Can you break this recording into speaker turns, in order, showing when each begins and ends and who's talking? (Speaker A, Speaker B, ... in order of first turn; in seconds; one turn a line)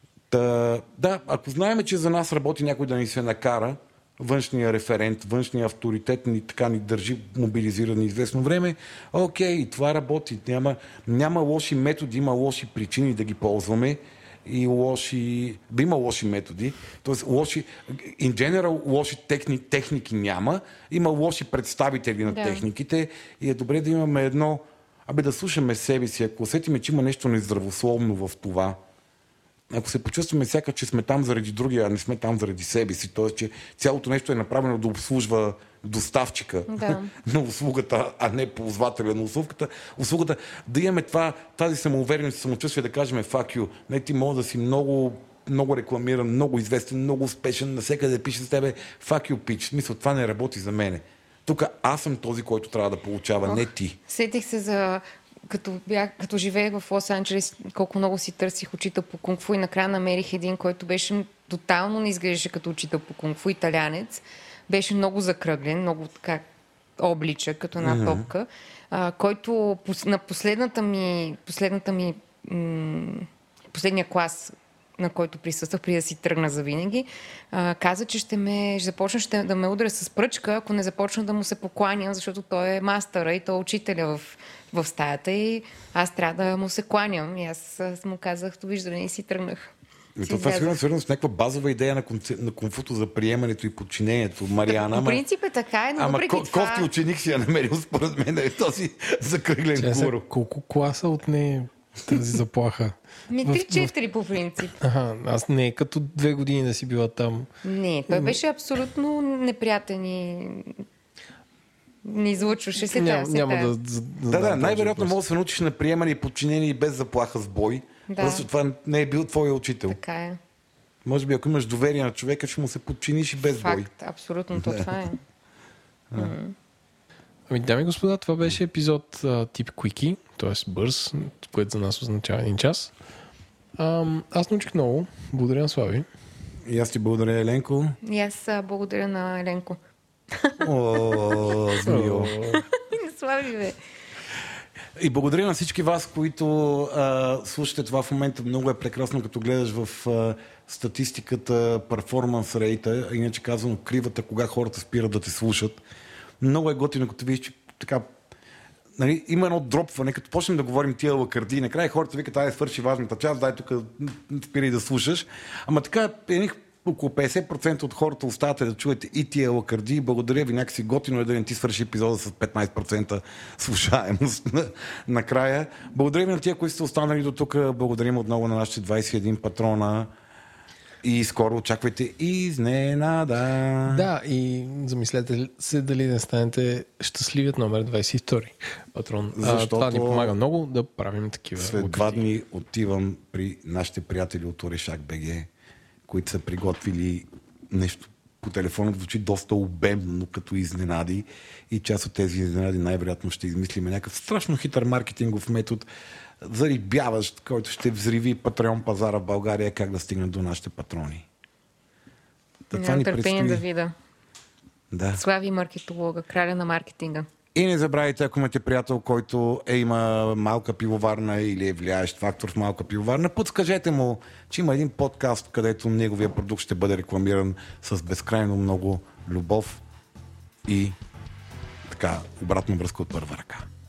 Speaker A: 0.3-28.8
Speaker B: 22.3-22.6
Speaker A: 29.7-54.0
Speaker B: 36.7-37.1
Speaker B: 53.5-66.4
Speaker B: 67.0-89.7
Speaker A: 67.8-68.3
Speaker A: 90.2-95.2
Speaker B: 90.2-90.8
Speaker B: 94.7-96.9
Speaker A: 96.0-100.3
Speaker C: 99.8-103.9
Speaker B: 103.3-104.8
Speaker C: 104.8-107.5
Speaker B: 107.6-110.8
Speaker C: 108.1-108.4
Speaker B: 112.0-113.7
Speaker C: 112.8-115.2
Speaker A: 114.3-120.0
Speaker B: 118.1-118.5
Speaker B: 119.9-120.4
Speaker A: 121.0-123.9
Speaker B: 123.6-125.2
Speaker A: 124.6-124.9
Speaker B: 126.2-126.5
Speaker C: 127.5-132.9
Speaker C: 133.8-136.1
Speaker A: 136.7-138.0
Speaker B: 138.0-139.8
Speaker B: 140.3-141.8
Speaker A: 140.6-142.4
Speaker C: 141.8-142.6
Speaker B: 142.5-143.8
Speaker A: 145.0-155.8
Speaker A: 156.4-158.1
Speaker A: 159.0-180.1
Speaker A: 181.0-184.1
Speaker C: 183.9-192.2
Speaker A: 189.3-190.3
Speaker A: 191.6-195.5
Speaker A: 196.1-205.9
Speaker A: 206.4-211.3
Speaker A: 212.7-213.6
Speaker B: 212.7-213.9
Speaker A: 214.9-215.2
Speaker B: 215.1-217.3
Speaker A: 217.5-229.8
Speaker A: 230.7-231.0
Speaker A: 231.9-233.7